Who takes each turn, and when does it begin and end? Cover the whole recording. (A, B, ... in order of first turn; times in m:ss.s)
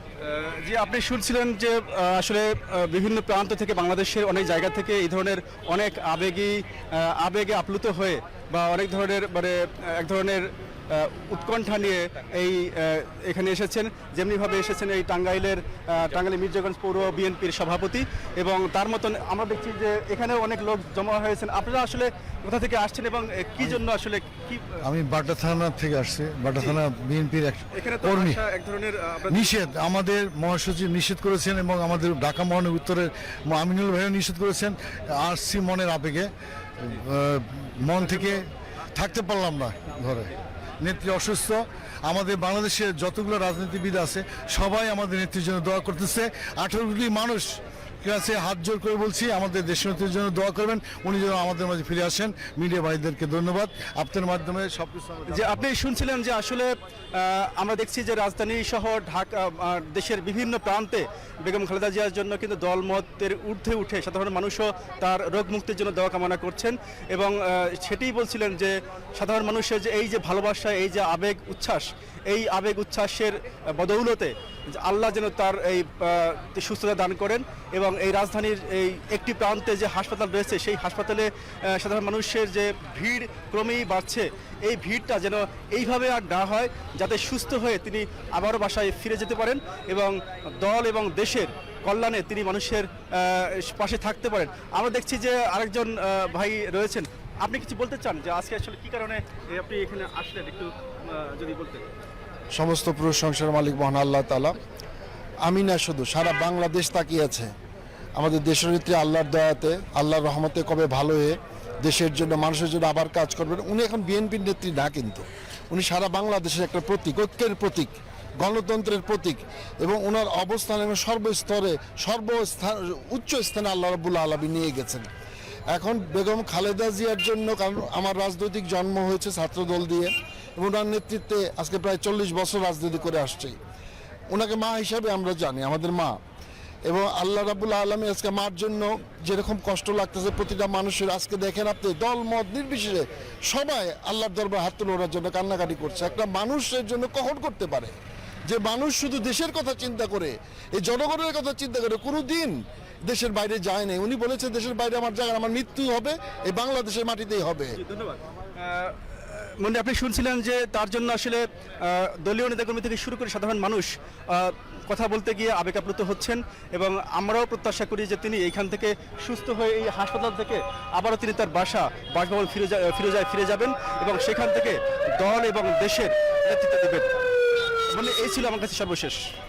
0:00.2-0:24.7 A
0:24.8-0:28.4 B
0:27.7-0:29.5 A
0:29.3-0:36.3 B
0:36.8-0:55.6 B
0:38.1-0:38.3 A
0:55.3-1:41.8 A
1:42.5-1:44.6 C
1:45.4-1:47.5 C
1:48.2-2:05.0 C
2:05.7-2:13.6 C
2:14.3-2:16.2 C
2:16.9-2:27.9 C
2:28.5-2:37.7 C
2:37.8-2:57.1 A
2:57.9-2:59.2 A